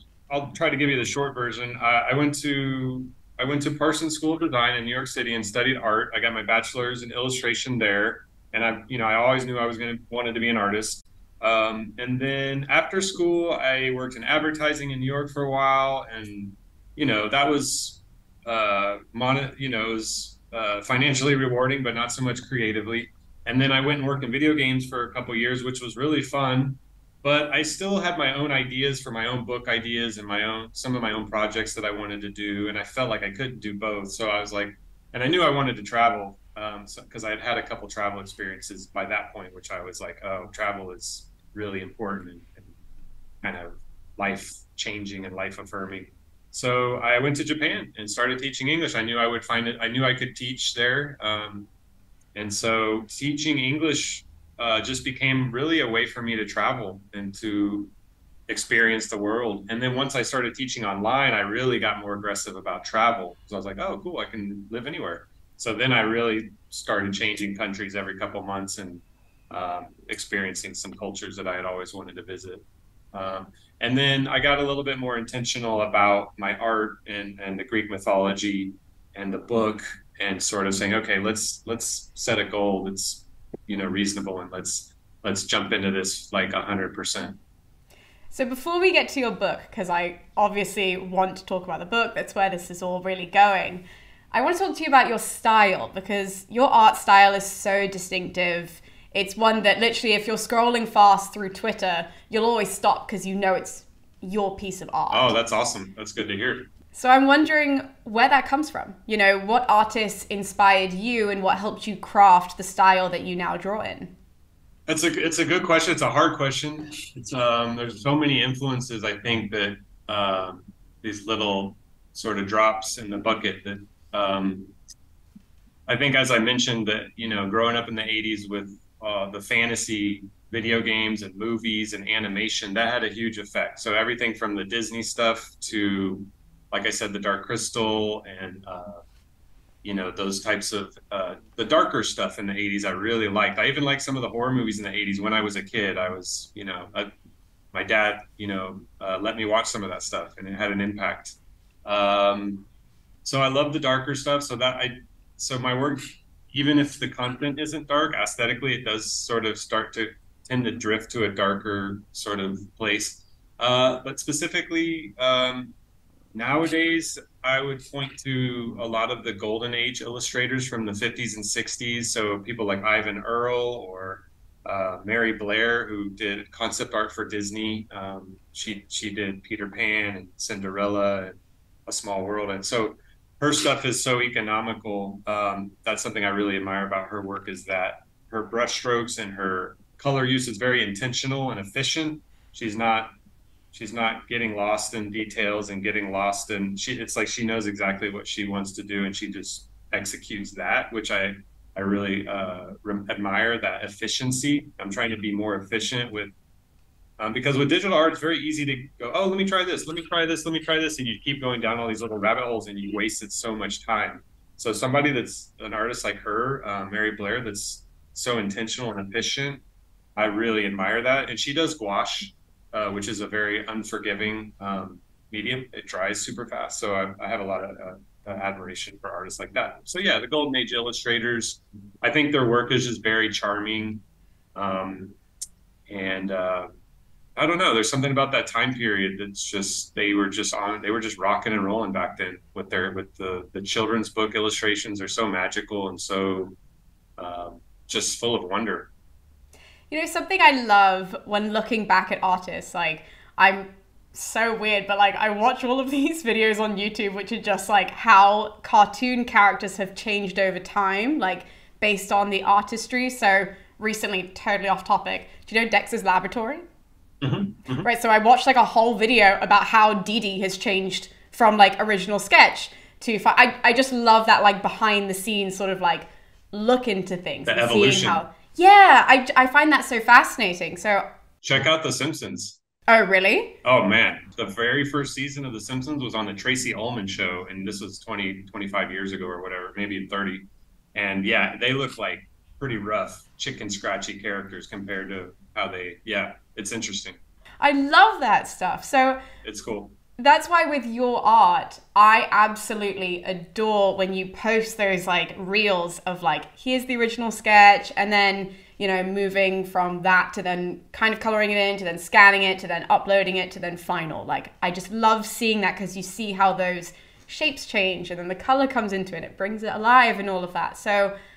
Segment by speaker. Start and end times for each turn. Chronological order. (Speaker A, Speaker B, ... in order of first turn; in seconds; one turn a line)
Speaker A: 0.3-42.7
Speaker A: 43.4-51.7
Speaker A: 52.3-57.9
Speaker A: 58.5-87.4
Speaker B: 88.3-105.3
Speaker A: 105.1-106.7
Speaker B: 106.9-114.1
Speaker A: 114.9-124.7
Speaker A: 125.9-139.0
Speaker A: 139.8-147.1
Speaker A: 147.7-152.7
Speaker A: 153.2-165.7
Speaker A: 166.3-181.3
Speaker A: 181.8-193.1
Speaker A: 193.7-206.3
Speaker A: 207.2-219.6
Speaker A: 220.2-234.0
Speaker A: 234.5-235.2
Speaker A: 235.9-236.7
Speaker A: 237.3-246.6
Speaker A: 247.2-248.9
Speaker B: 249.9-266.6
Speaker A: 267.2-267.9
Speaker B: 267.8-281.1
Speaker A: 277.4-278.2
Speaker A: 281.4-282.6
Speaker B: 282.9-283.6
Speaker A: 283.6-297.2
Speaker B: 297.6-299.2
Speaker A: 299.4-299.9
Speaker B: 300.2-321.1